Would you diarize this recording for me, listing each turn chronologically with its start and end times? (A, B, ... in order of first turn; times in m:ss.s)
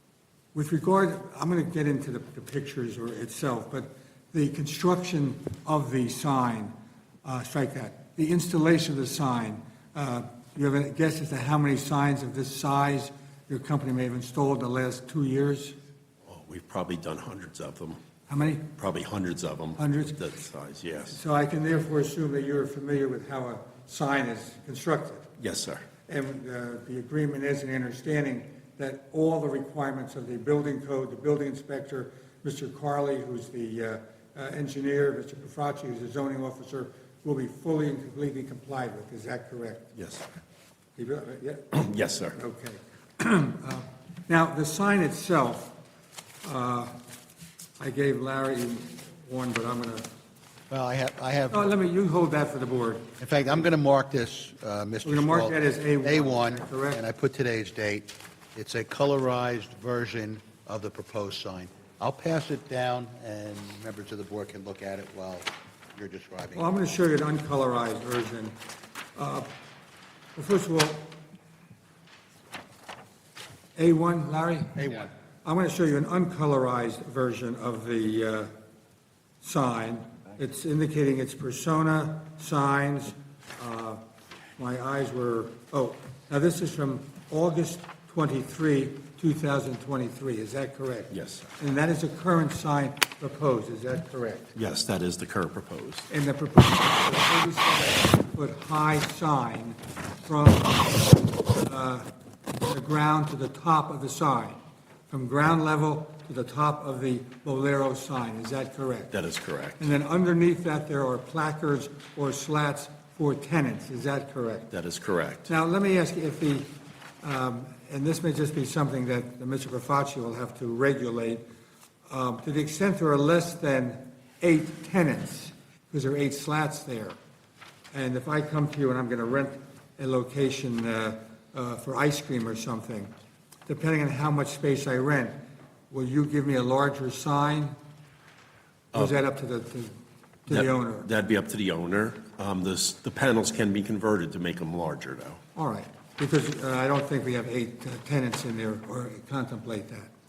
0:00.5-0:06.7 A
0:07.2-0:15.8 A
0:16.3-0:18.0 B
0:18.3-0:18.6 A
0:18.6-0:21.2 B
0:19.8-0:20.2 A
0:21.1-0:25.3 A
0:25.4-0:25.8 B
0:26.1-0:40.0 A
0:40.0-0:40.2 B
0:41.0-0:45.7 A
0:41.7-0:42.4 B
0:46.4-0:47.0 A
0:47.8-0:50.1 A
0:50.7-0:51.7 C
0:51.5-0:53.1 A
0:53.2-1:06.6 C
0:55.0-0:57.0 A
1:06.5-1:08.5 A
1:09.2-1:09.5 A
1:10.3-1:11.2 A
1:13.8-1:18.5 A
1:14.8-1:15.1 C
1:19.4-1:24.0 A
1:24.6-1:34.5 A
1:31.1-1:31.5 B
1:34.5-1:36.1 B
1:36.1-1:42.1 A
1:42.6-1:49.1 A
1:49.1-1:49.8 B
1:49.8-1:54.7 A
1:54.7-1:55.5 B
1:55.5-2:01.4 A
2:02.1-2:07.2 A
2:07.9-2:13.1 A
2:13.7-2:15.3 A
2:15.9-2:17.8 A
2:18.9-2:19.9 A
2:20.4-2:21.1 A
2:20.5-2:25.4 B
2:25.5-2:30.1 A